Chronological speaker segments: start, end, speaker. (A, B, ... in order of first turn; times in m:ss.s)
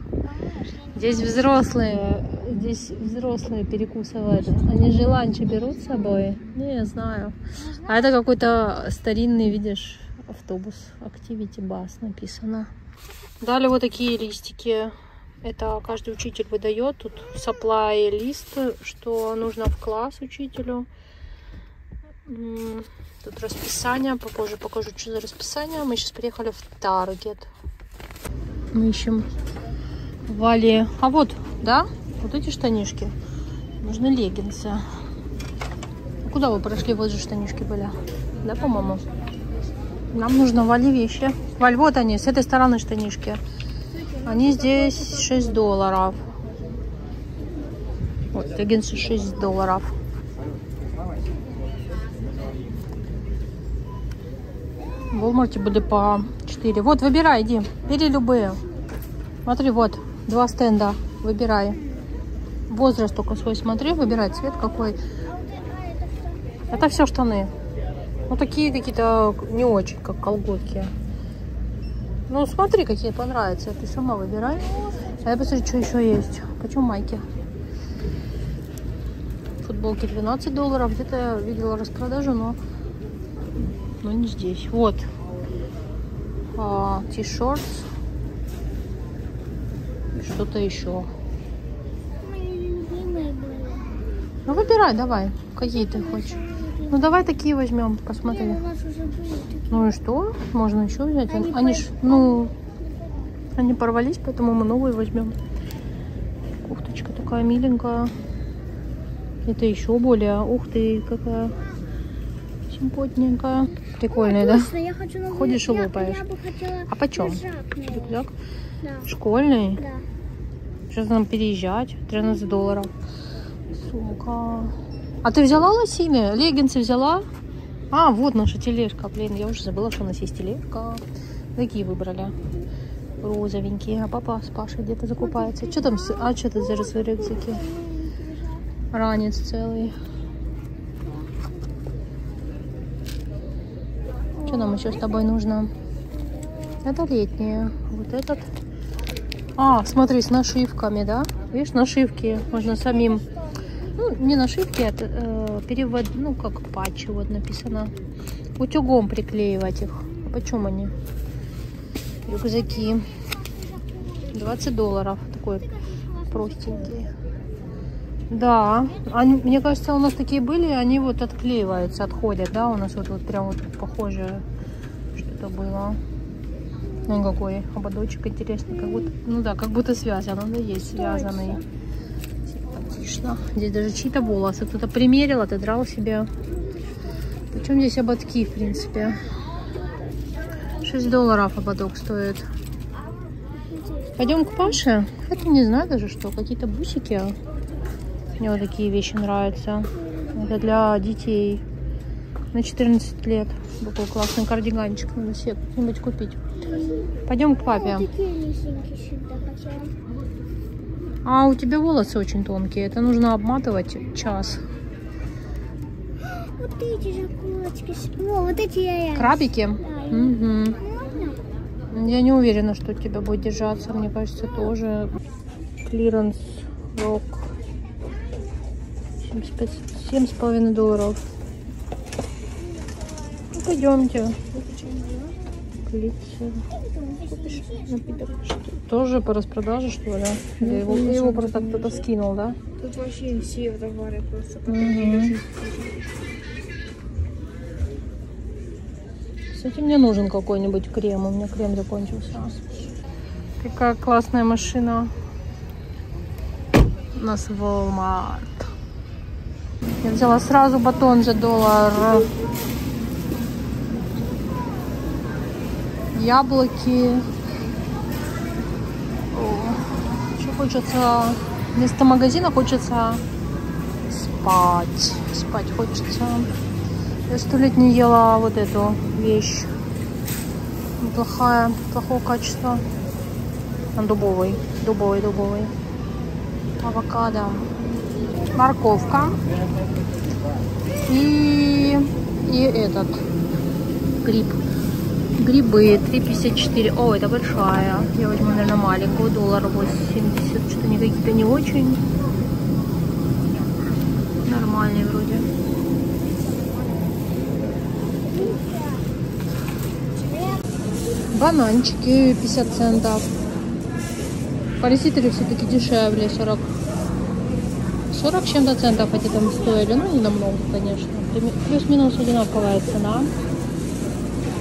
0:00.2-0:01.9 A
0:00.9-0:12.7 B
0:04.8-0:06.1 A
0:07.6-0:08.1 A
0:13.4-0:20.9 B
0:22.3-0:27.5 B
0:28.7-0:29.3 B
0:30.3-0:33.1 B
0:33.8-0:34.8 B
0:36.2-0:39.0 B
0:40.1-0:43.4 B
0:44.2-0:46.2 B
0:44.2-0:44.8 C
0:48.3-0:49.9 B
0:55.1-0:58.6 B
0:59.4-1:01.8 B
1:02.7-1:05.0 B
1:05.2-1:06.7 A
1:06.7-1:07.5 B
1:08.3-1:10.9 B
1:12.3-1:14.7 B
1:15.2-1:17.2 B
1:19.6-1:22.6 B
1:24.0-1:25.1 B
1:26.6-1:27.8 B
1:30.1-1:31.1 B
1:32.2-1:34.1 A
1:34.4-1:38.6 B
1:35.7-1:37.3 A
1:38.2-1:39.8 A
1:39.7-1:42.5 B
1:41.3-1:43.1 A
1:43.6-1:45.4 B
1:46.6-1:48.1 B
1:49.4-1:51.6 B
1:52.7-1:54.7 B
1:54.1-1:58.2 A
1:55.3-1:56.2 B
1:56.9-1:58.3 B
1:58.8-1:59.1 A
1:59.0-1:59.8 B
1:59.8-2:00.0 A
2:00.9-2:02.9 B
2:03.7-2:07.2 B
2:07.9-2:11.0 B
2:11.6-2:12.3 B
2:13.2-2:17.6 B
2:15.2-2:18.6 A
2:18.9-2:19.9 B
2:24.3-2:25.0 A
2:24.4-2:25.7 B
2:26.2-2:26.8 A
2:26.8-2:28.4 B
2:29.6-2:33.2 B
2:33.9-2:37.9 B
2:38.6-2:40.9 B
2:42.2-2:43.1 B
2:43.4-2:44.3 A
2:44.3-2:45.7 B
2:45.8-2:46.9 A
2:46.3-2:47.1 B
2:48.3-2:54.4 B
2:55.1-2:56.0 B
2:57.0-3:01.6 B
3:01.0-3:01.6 A
3:02.5-3:06.3 B
3:07.5-3:09.2 B
3:10.8-3:12.4 B
3:13.5-3:14.8 A
3:14.2-3:17.4 B
3:18.4-3:21.6 B
3:22.5-3:26.4 B
3:26.6-3:30.0 A
3:27.2-3:28.1 B
3:31.2-3:34.6 B
3:36.3-3:41.4 A
3:39.1-3:40.8 B
3:41.9-3:45.1 B
3:45.8-3:47.5 B
3:49.2-3:51.2 B
3:53.5-3:54.4 B
3:54.4-3:55.3 C
3:55.8-3:56.6 B
3:56.7-3:57.9 A
3:57.3-3:58.6 C
3:58.8-4:02.6 B
4:00.6-4:02.1 C
4:02.8-4:06.1 C
4:04.7-4:05.4 B
4:09.5-4:12.6 B
4:13.6-4:15.1 B
4:17.1-4:18.7 B
4:20.0-4:22.3 B
4:26.1-4:27.3 B
4:29.3-4:33.2 B
4:34.1-4:36.5 B
4:37.3-4:39.7 B
4:41.0-4:42.8 B
4:43.9-4:45.7 B
4:46.8-4:47.7 B
4:48.5-4:49.4 B
4:51.0-4:53.2 B
4:54.2-4:54.6 B
4:55.4-5:02.0 B
5:04.4-5:05.5 B
5:08.3-5:09.0 A
5:11.3-5:13.3 B
5:14.8-5:16.7 B
5:18.1-5:23.3 B